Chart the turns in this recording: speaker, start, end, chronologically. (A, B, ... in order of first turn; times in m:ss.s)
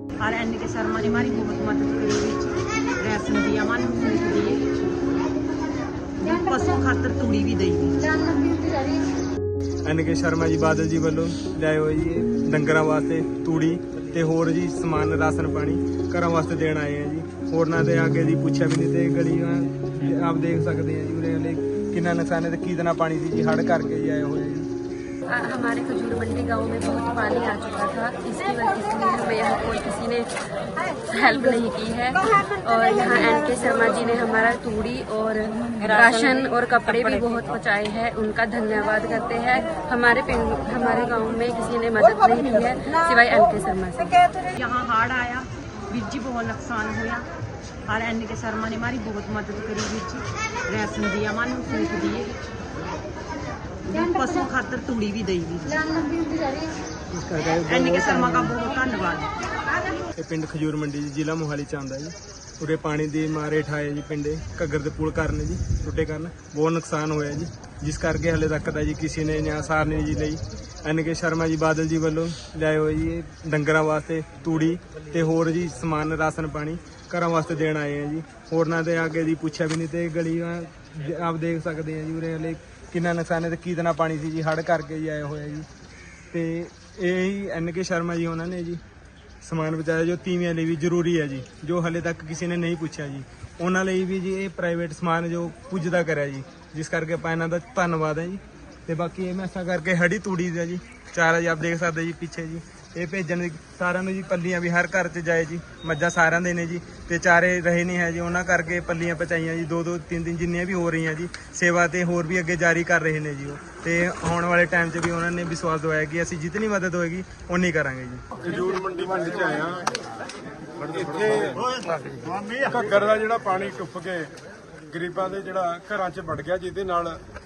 0:00.2-0:05.1 A
0:06.2-0:08.5 A
0:09.8-0:24.7 B
0:25.3-0:44.2 C
0:44.6-0:47.3 A
0:47.9-0:52.6 A
0:53.8-0:56.4 A
0:57.1-0:58.5 B
0:57.6-0:59.3 A
1:00.2-1:25.7 B
1:26.3-1:28.8 B
1:29.4-1:58.2 B
1:58.4-1:59.9 D
2:00.8-2:01.8 D
2:02.6-2:04.3 D
2:04.9-2:07.2 D